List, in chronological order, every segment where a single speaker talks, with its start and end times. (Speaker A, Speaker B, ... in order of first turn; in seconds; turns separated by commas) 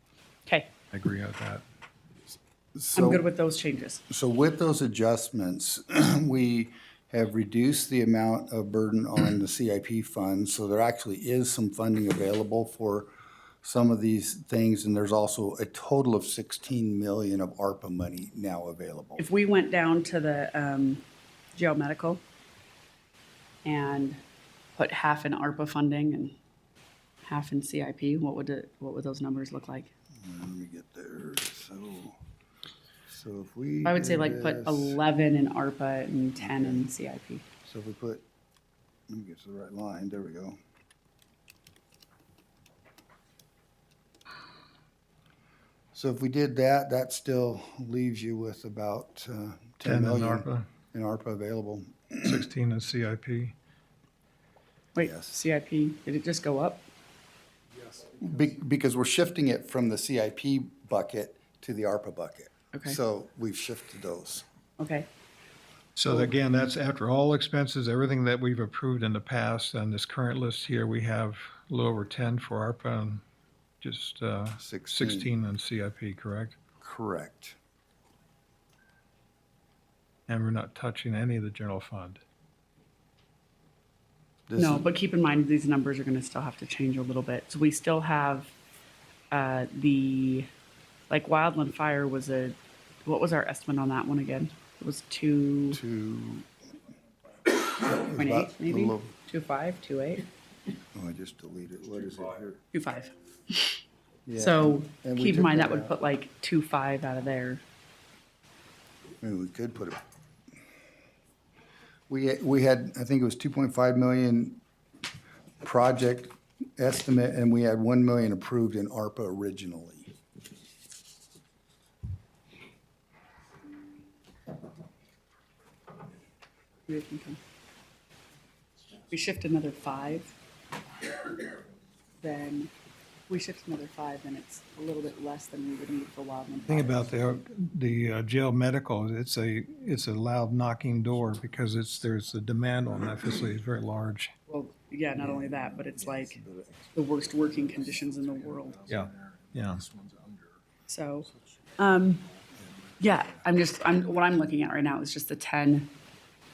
Speaker A: 0.9-1.6, Speaker B: 2.7-3.3, Speaker C: 2.9-4.0, Speaker B: 4.1-13.1, Speaker B: 13.6-19.2, Speaker C: 19.2-21.0, Speaker C: 21.5-22.2, Speaker C: 23.6-24.2, Speaker C: 24.8-26.4, Speaker C: 27.2-29.9, Speaker B: 30.2-32.1, Speaker B: 33.1-35.0, Speaker C: 33.8-37.4, Speaker B: 36.4-36.9, Speaker B: 37.6-38.2, Speaker B: 39.1-40.6, Speaker B: 45.9-52.4, Speaker A: 49.8-50.7, Speaker A: 52.2-53.5, Speaker C: 54.9-56.9, Speaker B: 55.0-55.4, Speaker B: 58.0-64.4, Speaker C: 62.7-63.0, Speaker C: 64.8-65.1, Speaker A: 66.0-73.2, Speaker A: 73.8-76.6, Speaker B: 74.6-75.3, Speaker B: 76.8-77.6, Speaker A: 80.3-82.2, Speaker B: 84.5-84.8, Speaker C: 84.6-88.5, Speaker C: 89.3-90.5, Speaker C: 91.1-95.8, Speaker B: 95.7-96.5, Speaker B: 97.8-99.1, Speaker C: 98.1-100.2, Speaker B: 100.9-102.6, Speaker C: 102.7-103.8, Speaker B: 104.2-105.9, Speaker C: 104.3-107.6, Speaker B: 109.2-110.0, Speaker B: 112.1-114.6, Speaker B: 115.6-120.1, Speaker C: 126.9-127.4, Speaker C: 129.1-130.3, Speaker C: 132.2-132.7, Speaker C: 133.3-137.0, Speaker A: 136.7-144.3, Speaker C: 144.5-146.4, Speaker B: 146.3-146.7, Speaker C: 146.9-148.8, Speaker A: 148.9-149.8, Speaker C: 150.9-152.2, Speaker C: 153.0-155.9